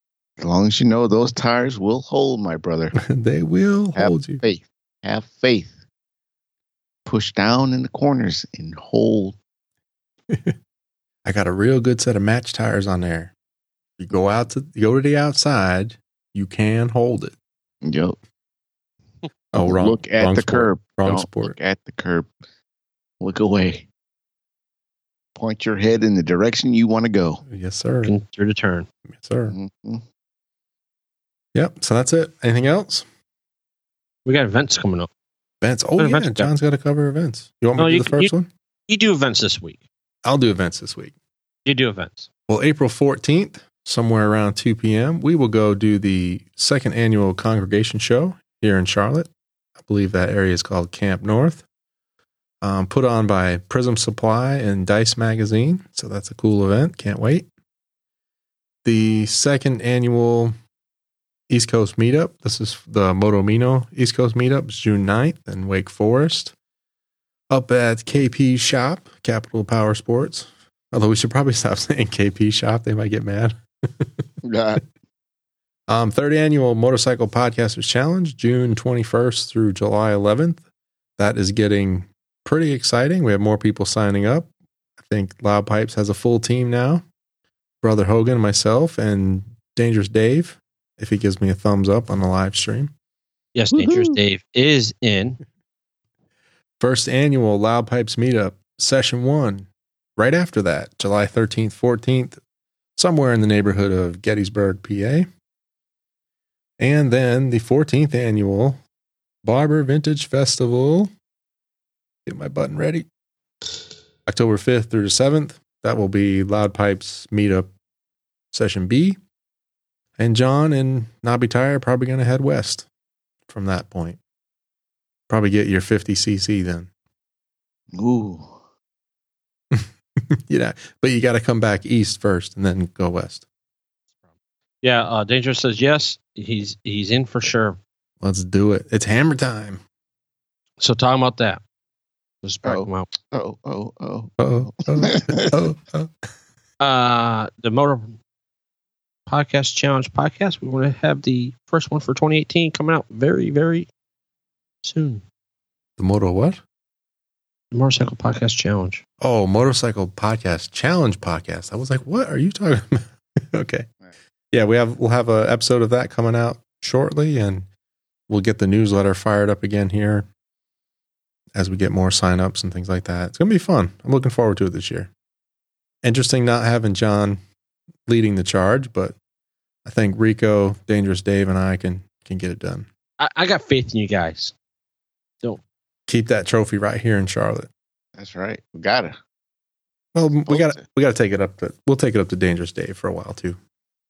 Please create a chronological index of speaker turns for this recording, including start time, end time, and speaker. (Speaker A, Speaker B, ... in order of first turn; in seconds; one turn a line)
Speaker A: 0.4-2.9
Speaker B: 3.0-4.4
Speaker A: 4.0-5.8
Speaker A: 7.0-9.4
Speaker B: 10.3-10.5
Speaker B: 11.2-13.3
Speaker B: 14.0-17.3
Speaker A: 17.8-18.2
Speaker B: 19.5-21.5
Speaker A: 19.6-22.3
Speaker A: 23.2-23.9
Speaker A: 25.3-27.4
Speaker B: 27.5-28.1
Speaker C: 28.0-28.9
Speaker B: 29.1-29.5
Speaker A: 29.5-30.0
Speaker B: 31.5-33.0
Speaker C: 34.2-35.1
Speaker B: 35.6-38.5
Speaker C: 36.0-36.5
Speaker C: 37.8-38.3
Speaker C: 38.9-39.8
Speaker B: 40.2-41.1
Speaker C: 41.6-42.3
Speaker B: 42.5-49.3
Speaker B: 49.8-51.6
Speaker B: 52.6-57.5
Speaker B: 58.8-60.5
Speaker B: 61.5-66.5
Speaker B: 67.5-74.2
Speaker A: 74.4-74.8
Speaker B: 75.9-80.6
Speaker B: 81.2-84.5
Speaker B: 85.0-87.0
Speaker B: 87.8-92.9
Speaker C: 93.5-95.4
Speaker A: 93.7-94.2
Speaker B: 96.8-102.4
Speaker B: 103.0-105.3
Speaker B: 106.8-108.8
Speaker B: 109.4-111.1
Speaker B: 112.2-113.0
Speaker B: 114.3-117.7
Speaker B: 118.5-119.2
Speaker B: 120.2-122.9
Speaker B: 123.5-124.2
Speaker B: 125.3-126.9
Speaker A: 127.9-128.6
Speaker B: 129.7-133.4
Speaker C: 134.8-137.8
Speaker B: 138.2-139.8
Speaker C: 140.8-141.6
Speaker C: 142.4-143.1
Speaker A: 142.6-145.6
Speaker B: 144.4-146.3
Speaker C: 146.8-148.2
Speaker C: 149.3-153.9
Speaker C: 154.8-155.2
Speaker B: 156.0-156.6
Speaker C: 157.7-159.0
Speaker B: 159.2-163.9
Speaker B: 164.5-167.7
Speaker B: 168.3-170.3
Speaker B: 171.5-175.1
Speaker B: 176.0-177.4
Speaker B: 178.1-179.2
Speaker B: 179.8-182.9
Speaker C: 183.2-184.5
Speaker B: 186.1-187.7
Speaker A: 188.2-189.2
Speaker B: 190.1-193.6
Speaker A: 190.5-190.8